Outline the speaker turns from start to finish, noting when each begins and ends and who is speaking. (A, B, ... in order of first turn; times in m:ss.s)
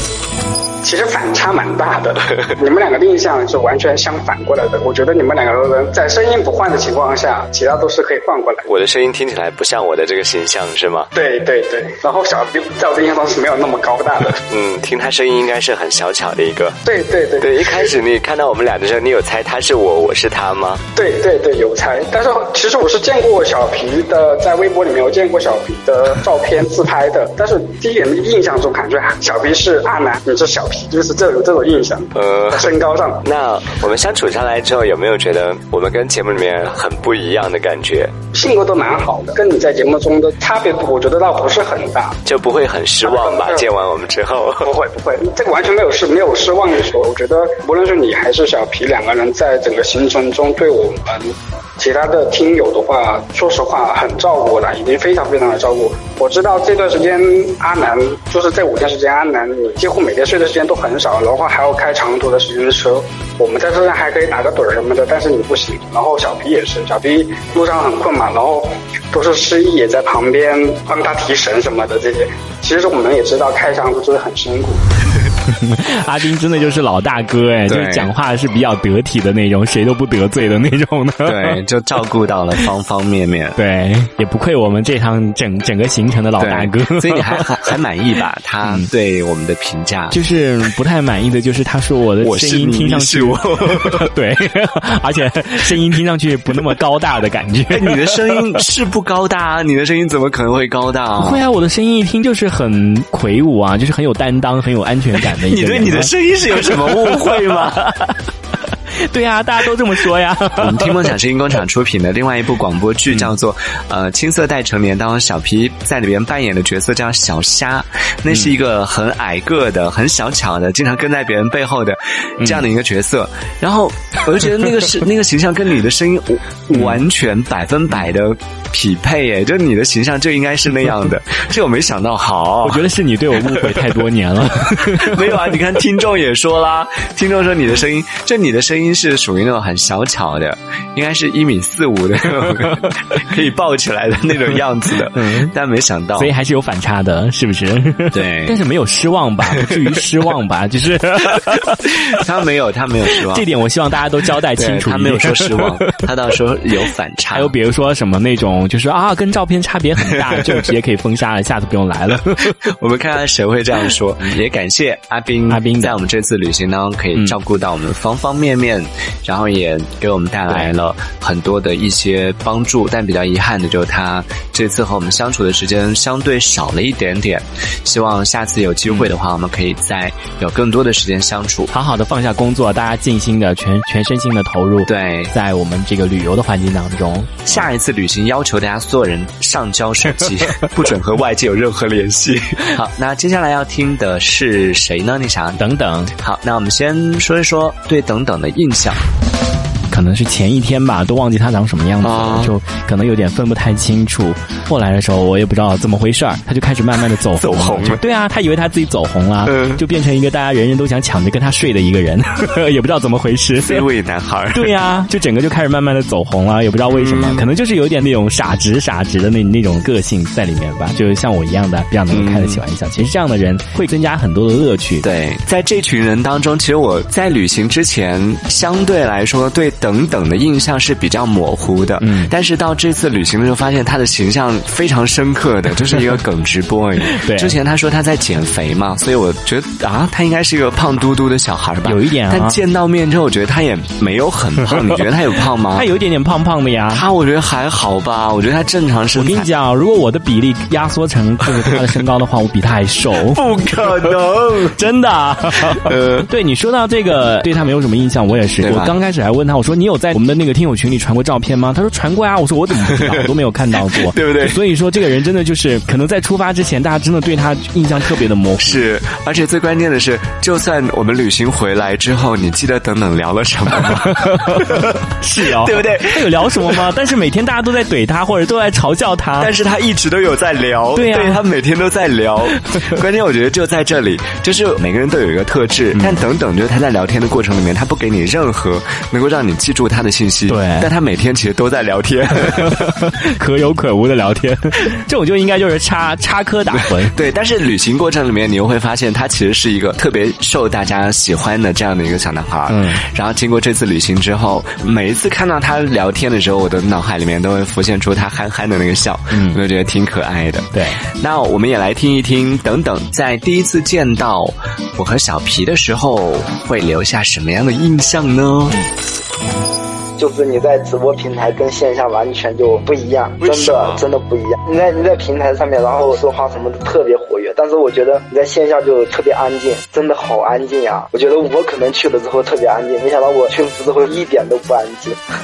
0:00.8-0:08.7 A
0:08.7-0:11.1 B
0:11.2-0:14.4 A
0:14.4-0:16.8 B
0:16.9-0:17.9 A
0:17.4-0:20.8 B
0:21.0-0:33.2 A
0:32.2-0:32.7 B
0:33.2-0:38.1 B
0:38.3-0:42.2 A
0:42.2-0:44.7 B
0:43.0-0:43.7 A
0:44.6-1:14.8 A
1:15.5-1:21.6 C
1:17.7-1:18.1 B
1:21.2-1:23.6 B
1:23.6-1:27.4 C
1:26.4-1:30.2 B
1:30.1-1:38.6 C
1:32.2-1:34.1 B
1:37.7-1:41.4 B
1:41.2-1:48.2 C
1:45.5-1:47.8 B
1:49.1-1:51.1 C
1:50.6-2:12.9 B
2:06.7-2:07.0 C
2:12.6-2:15.2 C
2:13.5-2:13.8 B
2:14.8-2:26.3 B
2:25.2-2:25.5 C
2:26.2-2:32.2 C
2:28.1-2:28.6 B
2:32.1-2:33.4 B
2:33.3-2:36.0 C
2:34.6-2:37.5 B
2:37.3-2:42.6 C
2:42.6-3:01.7 B
2:45.5-2:46.0 C
2:50.5-2:50.7 C
3:01.7-3:07.7 C
3:04.9-3:05.3 B
3:07.5-3:15.6 B
3:15.6-3:16.1 C
3:16.2-3:19.0 B
3:19.9-3:33.8 C
3:22.0-3:22.5 B
3:27.4-3:28.0 B
3:29.5-3:29.8 B
3:33.6-3:34.7 B
3:34.5-3:45.1 C
3:36.9-3:37.5 B
3:42.1-3:42.6 B
3:45.0-4:05.9 B
3:52.0-3:52.3 C
3:57.1-3:57.6 C
4:01.8-4:02.6 C
4:05.8-4:07.0 C
4:06.9-4:09.5 B
4:09.2-4:13.4 C
4:13.3-4:14.8 B
4:14.8-4:28.8 C
4:15.7-4:16.3 B
4:18.6-4:19.0 B
4:23.9-4:24.6 B
4:28.6-4:34.9 B
4:33.7-4:39.5 C
4:35.4-4:36.8 B
4:39.4-4:52.9 B
4:41.0-4:41.4 C
4:46.0-4:46.2 C
4:50.5-4:50.9 C
4:52.5-4:57.1 C
4:57.1-5:18.8 B
5:02.7-5:03.0 C
5:09.3-5:09.6 C
5:10.7-5:11.0 C
5:20.2-5:35.2 D
5:23.4-5:24.0 B